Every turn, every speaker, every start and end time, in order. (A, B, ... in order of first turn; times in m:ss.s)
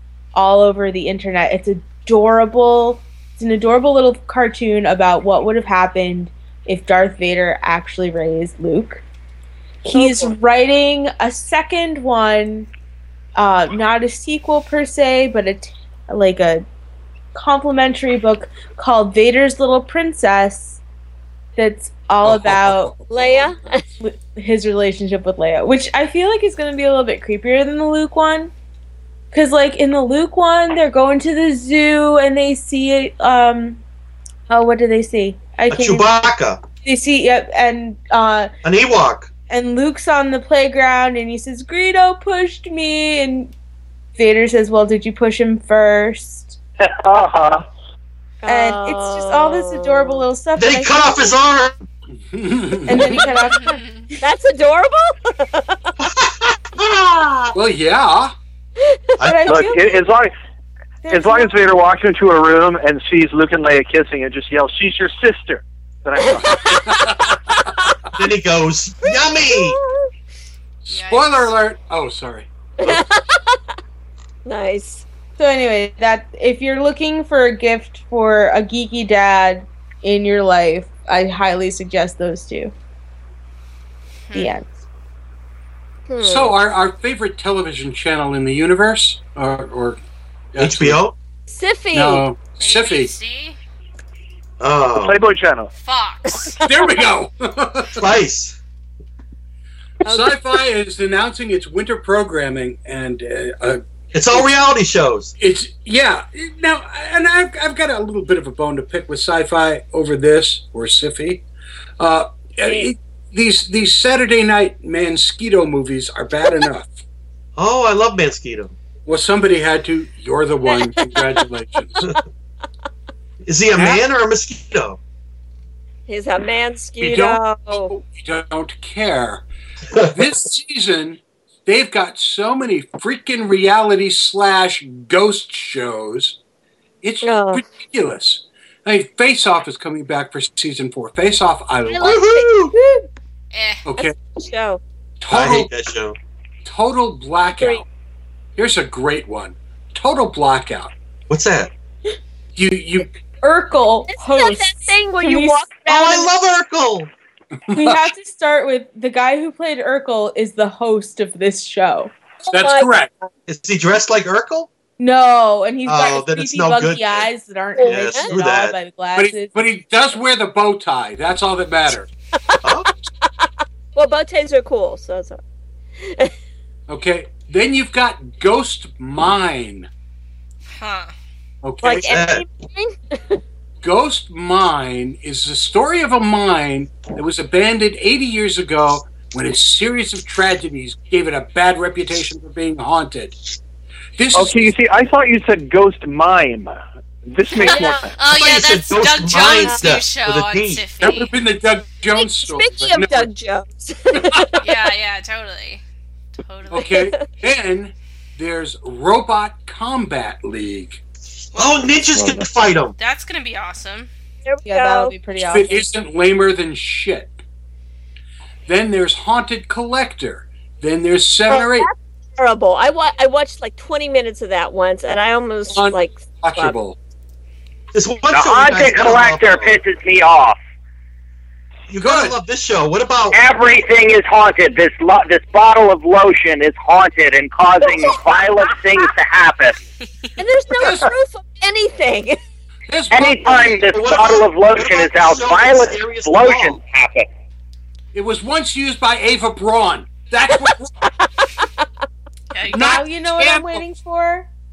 0:00.4-0:09.0 A
0:09.8-0:12.7 A
0:09.9-0:10.3 B
0:13.4-0:16.6 A
0:17.3-0:20.8 A
0:21.6-0:22.9 A
0:22.2-0:23.5 C
0:23.1-0:23.8 B
0:24.0-0:28.5 A
0:29.3-0:33.8 A
0:34.5-0:36.2 A
0:35.7-0:36.6 D
0:36.8-0:38.5 A
0:38.6-0:39.3 D
0:39.5-0:43.5 A
0:44.2-0:46.6 A
0:47.0-0:47.6 E
0:48.4-0:50.2 B
0:48.5-0:51.4 A
0:50.6-0:51.8 D
0:52.3-0:53.4 C
0:52.9-0:54.2 A
0:53.5-0:54.1 F
0:54.2-0:55.9 B
0:56.0-0:57.6 D
0:57.5-0:58.3 C
0:59.2-0:59.7 D
0:59.2-1:00.0 A
0:59.5-1:00.3 E
1:01.0-1:01.6 A
1:01.1-1:06.6 E
1:06.2-1:07.9 B
1:06.8-1:07.4 C
1:08.2-1:09.8 D
1:09.0-1:10.1 B
1:10.8-1:13.0 C
1:10.9-1:11.5 F
1:12.8-1:13.8 B
1:14.4-1:15.1 B
1:15.4-1:22.7 A
1:24.3-1:24.5 F
1:24.3-1:24.7 A
1:26.1-1:26.6 B
1:26.2-1:30.0 C
1:30.5-1:31.0 C
1:30.6-1:31.2 D
1:31.5-1:32.3 B
1:31.9-1:33.1 C
1:32.6-1:33.6 F
1:34.6-1:35.2 D
1:34.9-1:35.7 E
1:35.8-1:36.6 F
1:36.4-1:36.9 B
1:36.6-1:38.1 C
1:38.0-1:38.6 D
1:40.0-1:44.5 C
1:40.1-1:40.6 B
1:44.1-1:45.3 D
1:45.4-1:51.4 C
1:52.0-1:57.0 C
1:57.6-1:58.8 D
1:59.1-2:02.0 C
2:00.7-2:01.4 B
2:03.4-2:05.0 D
2:03.7-2:04.0 C
2:06.1-2:07.9 B
2:07.0-2:09.4 C
2:10.0-2:16.4 C
2:17.0-2:22.3 C
2:17.2-2:17.6 B
2:21.9-2:23.1 B
2:22.0-2:22.7 D
2:23.5-2:23.9 F
2:23.8-2:24.2 C
2:24.0-2:24.8 B
2:25.2-2:25.7 C
2:25.3-2:26.2 D
2:26.6-2:27.9 C
2:27.6-2:27.8 B
2:28.6-2:30.9 C
2:31.3-2:31.7 D
2:32.6-2:33.1 C
2:33.4-2:35.9 A
2:34.1-2:36.3 B
2:35.9-2:37.1 D
2:37.7-2:38.0 C
2:37.7-2:42.1 A
2:42.4-2:43.3 B
2:42.5-2:43.1 C
2:43.5-2:44.7 D
2:45.0-2:49.5 A
2:45.9-2:47.3 D
2:47.8-2:48.3 B
2:47.8-2:48.8 D
2:49.2-2:52.1 C
2:52.5-2:55.4 B
2:52.6-2:52.9 D
2:56.0-2:56.3 B
2:56.9-2:59.9 C
3:00.7-3:01.1 F
3:01.6-3:02.1 C
3:01.8-3:03.4 B
3:01.9-3:02.4 D
3:03.8-3:13.4 C
3:14.2-3:14.7 C
3:14.3-3:18.2 E
3:17.5-3:18.1 B
3:18.2-3:21.3 F
3:18.3-3:20.8 D
3:19.6-3:20.0 B
3:21.0-3:23.3 C
3:22.2-3:24.6 B
3:24.1-3:24.5 C
3:24.6-3:25.8 F
3:26.4-3:27.1 F
3:26.7-3:31.0 C
3:26.8-3:27.3 B
3:31.5-3:32.0 F
3:31.5-3:33.0 D
3:33.0-3:34.1 F
3:34.4-3:35.2 B
3:34.7-3:35.9 A
3:35.4-3:37.4 C
3:38.7-3:41.9 C
3:41.5-3:46.8 B
3:45.7-3:47.0 C
3:47.9-3:49.8 D
3:48.3-3:50.6 G
3:51.9-3:53.4 D
3:52.0-3:52.4 C
3:53.3-3:59.8 G
4:00.4-4:02.4 B
4:00.8-4:01.1 C
4:02.9-4:03.9 C
4:03.1-4:07.3 G
4:03.9-4:06.8 D
4:08.1-4:10.9 C
4:12.5-4:13.0 F
4:12.7-4:13.8 C
4:12.8-4:14.5 A